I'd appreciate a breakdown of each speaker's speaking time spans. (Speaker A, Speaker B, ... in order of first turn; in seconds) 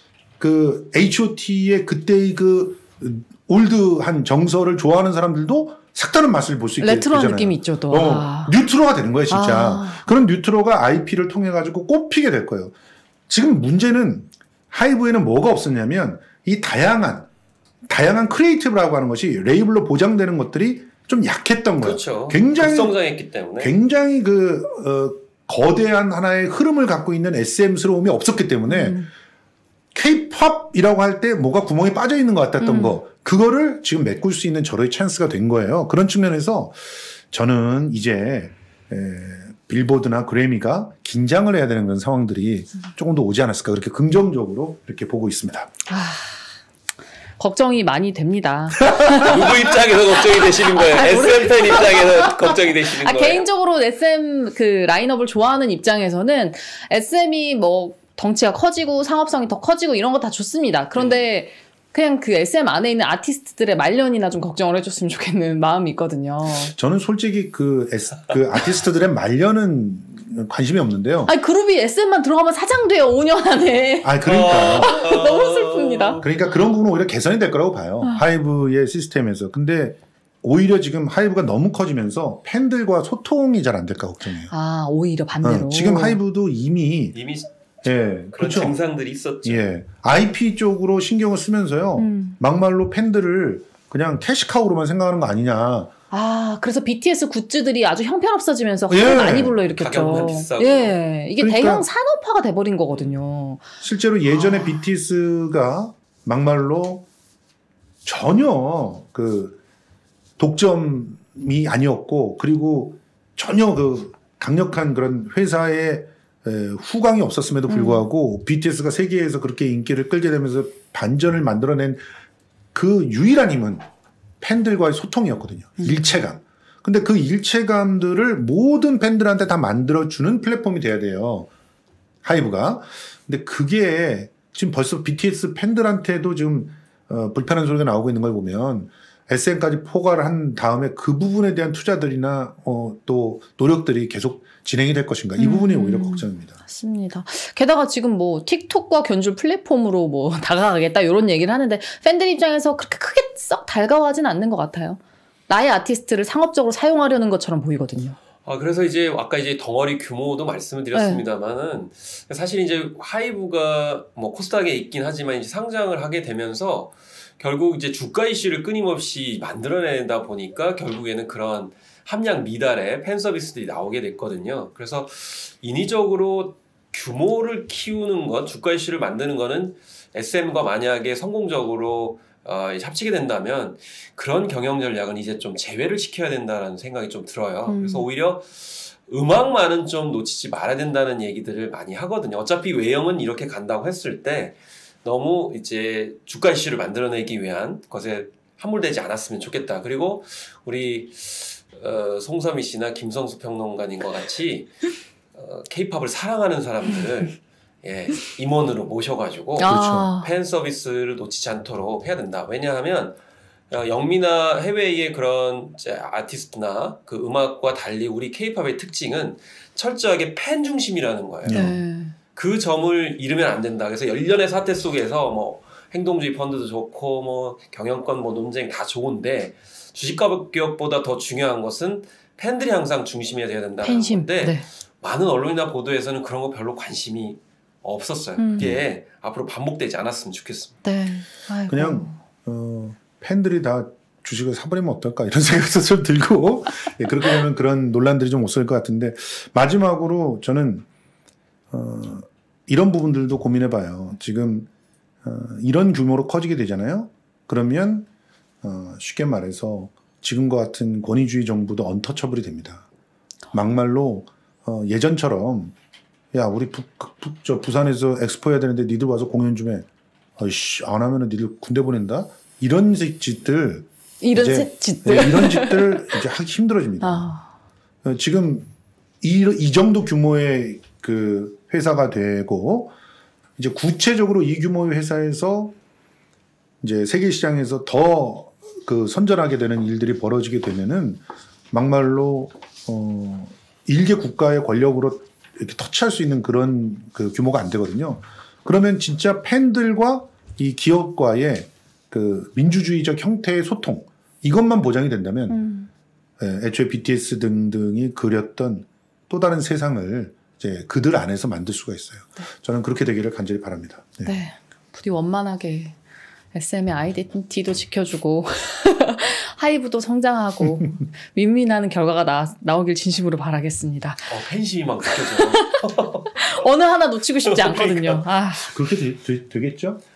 Speaker A: 0.4-12.7, 13.3-17.3, 17.9-23.0, 23.6-29.0, 29.9-45.7, 66.7-71.3, 74.0-75.0, 76.2-84.5, 85.4-87.2, 87.8-88.8, 89.4-95.9, 98.9-99.6, 101.4-101.8, 103.8-107.0, 108.0-109.6, 110.4-122.0, 122.7-123.8, 124.4-131.5, 132.2-146.5, 209.7-210.1, 221.4-221.8, 241.7-250.8, 251.7-254.7, 255.2-258.1, 258.6-262.9, 263.5-265.7, 266.3-269.9, 270.4-277.2, 278.0-278.7, 279.2-282.9, 283.6-285.8, 286.8-305.6, 306.4-314.3, 328.6-330.0
Speaker B: 6.8-8.5, 9.3-10.0, 28.7-29.1, 32.6-33.0, 45.9-46.4, 47.4-49.6, 50.3-66.7, 71.2-76.2, 84.5-86.2, 92.0-92.4, 96.1-103.7, 104.3-104.8, 117.7-118.0, 125.8-126.1, 145.4-158.2, 160.9-161.2, 187.7-188.1, 209.6-210.3, 221.5-222.1, 233.8-234.6, 238.4-238.7, 240.8-242.2, 274.2-276.1, 277.0-277.5, 305.5-305.9, 314.2-315.9, 316.5-324.3, 325.5-325.8, 326.4-328.7
Speaker C: 21.8-23.7, 49.1-53.5, 74.2-76.2, 87.1-87.5, 88.3-89.7, 99.7-101.0, 158.4-204.7, 205.3-213.2, 213.7-221.6, 222.3-240.8, 324.3-326.5, 327.4-328.2